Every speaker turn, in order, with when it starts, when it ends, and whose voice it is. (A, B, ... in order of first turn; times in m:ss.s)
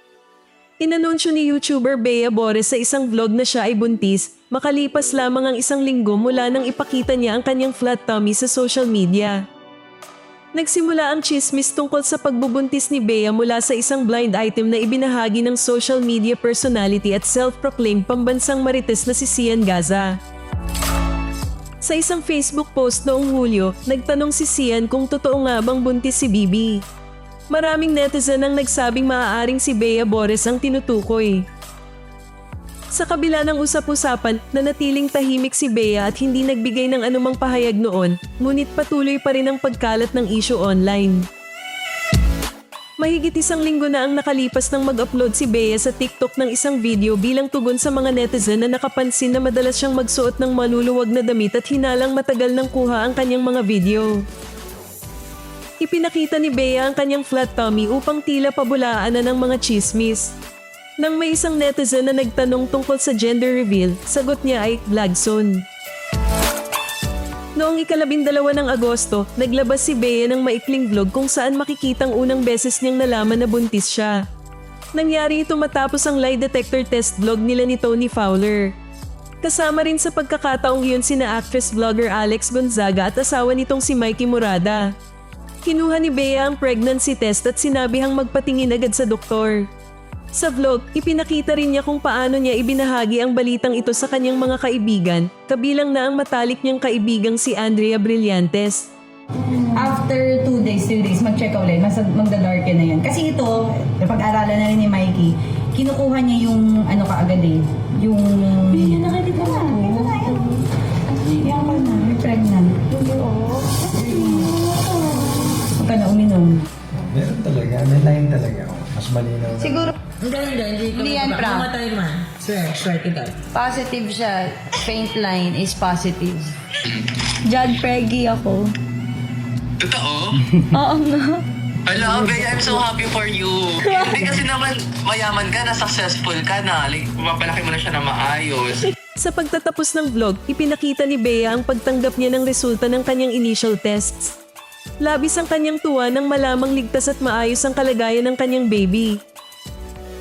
0:00.8-0:09.4 A
0:10.6-0:20.2 A
0:21.8-0:26.8 A
0:27.5-0:31.4 A
0:32.9-0:41.3 A
0:43.0-0:54.2 A
0:55.8-1:00.3 A
1:01.0-1:05.6 A
1:07.6-1:14.2 A
1:15.0-1:18.7 A
1:19.4-1:24.9 A
1:25.6-1:29.7 A
1:30.3-1:38.9 A
1:39.7-1:50.6 B
1:51.4-1:52.9 B
1:53.2-1:53.5 C
1:53.9-1:54.6 B
1:55.7-1:56.7 B
1:56.9-1:59.9 D
1:59.6-1:59.9 C
2:00.2-2:03.5 E
2:01.0-2:01.7 C
2:03.5-2:06.5 C
2:07.5-2:08.7 C
2:09.8-2:10.6 F
2:10.8-2:11.4 C
2:11.8-2:18.9 F
2:19.2-2:24.4 A
2:25.0-2:29.2 A